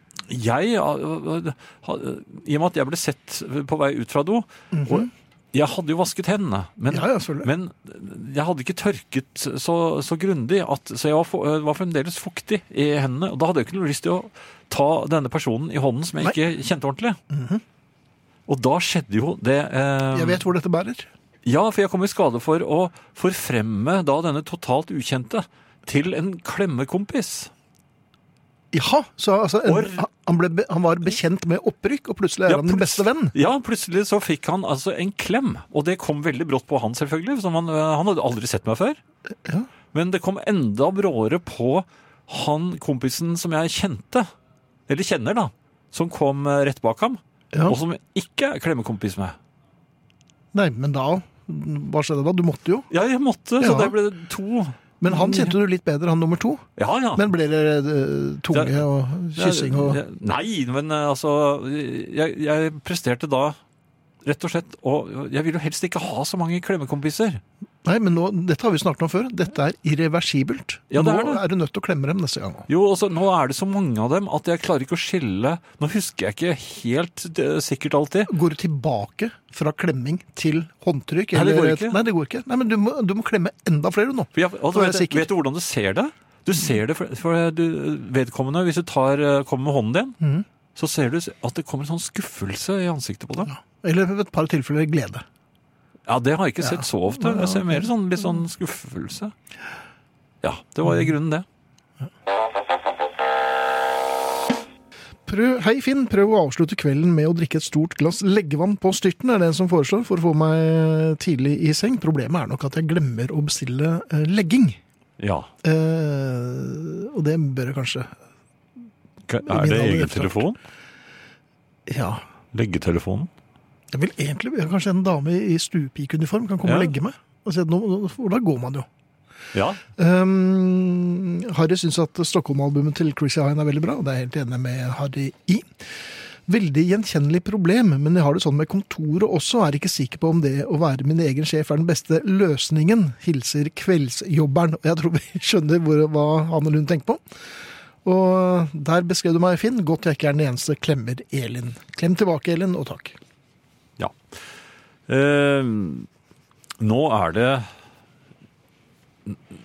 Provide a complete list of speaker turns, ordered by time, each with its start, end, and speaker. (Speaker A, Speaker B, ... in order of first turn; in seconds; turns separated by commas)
Speaker A: 0.3-17.2, Speaker B: 4.7-5.1, Speaker B: 6.9-7.5, Speaker B: 17.3-17.6, Speaker A: 18.5-20.4, Speaker B: 20.1-21.1, Speaker A: 21.4-27.5, Speaker B: 28.7-33.4, Speaker A: 29.6-30.0, Speaker A: 32.5-39.0, Speaker A: 39.9-44.3, Speaker A: 44.9-49.4, Speaker B: 47.5-47.8, Speaker B: 50.5-52.9, Speaker A: 52.9-55.6, Speaker B: 53.6-54.0, Speaker B: 55.0-60.0, Speaker A: 56.8-57.3, Speaker A: 58.5-58.8, Speaker A: 59.4-63.6, Speaker A: 64.2-67.4, Speaker B: 67.8-72.7, Speaker A: 70.9-71.4, Speaker A: 72.7-78.3, Speaker B: 78.3-85.3, Speaker A: 81.3-82.0, Speaker A: 84.3-90.2, Speaker B: 90.2-90.5, Speaker A: 90.8-93.5, Speaker B: 93.5-95.2, Speaker A: 96.1-99.3, Speaker B: 96.6-97.9, Speaker A: 100.4-101.5, Speaker B: 105.3-114.8, Speaker A: 115.2-115.5, Speaker B: 115.6-118.1, Speaker A: 119.3-120.6, Speaker B: 119.5-120.4, Speaker B: 121.9-122.2, Speaker A: 122.5-123.3, Speaker B: 123.9-128.9, Speaker A: 126.6-126.9, Speaker A: 129.5-129.8, Speaker B: 130.0-135.9, Speaker B: 136.5-147.2, Speaker B: 148.1-153.2, Speaker A: 155.1-156.1, Speaker A: 156.8-157.7